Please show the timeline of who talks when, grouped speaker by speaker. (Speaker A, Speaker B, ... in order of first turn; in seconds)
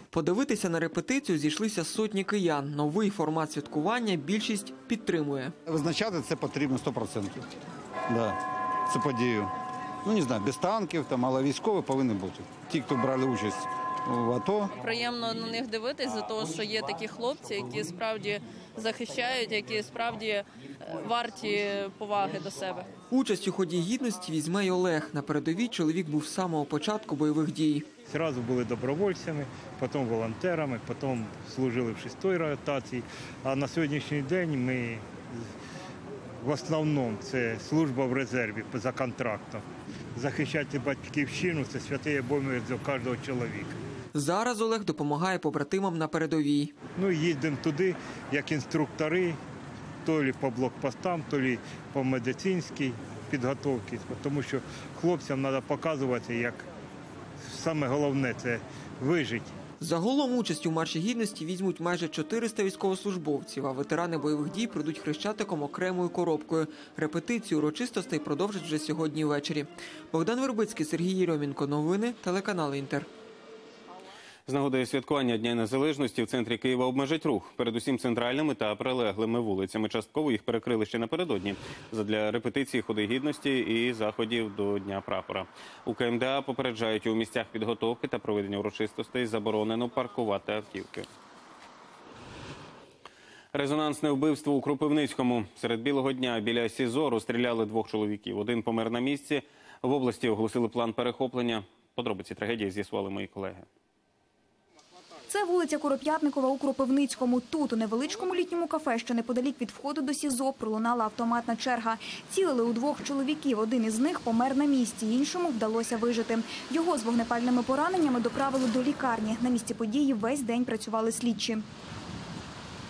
Speaker A: 0.1-5.5, 23.1-27.9, 44.1-46.8, 59.8-73.1
Speaker B: 5.7-7.5, 8.1-9.5, 10.0-14.7
Speaker C: 14.7-22.9
Speaker D: 28.1-35.4, 36.4-39.6, 40.1-43.8, 47.0-49.4, 50.0-56.6, 57.4-59.5
Speaker E: 74.5-91.1, 93.5-103.7
Speaker F: 105.3-121.7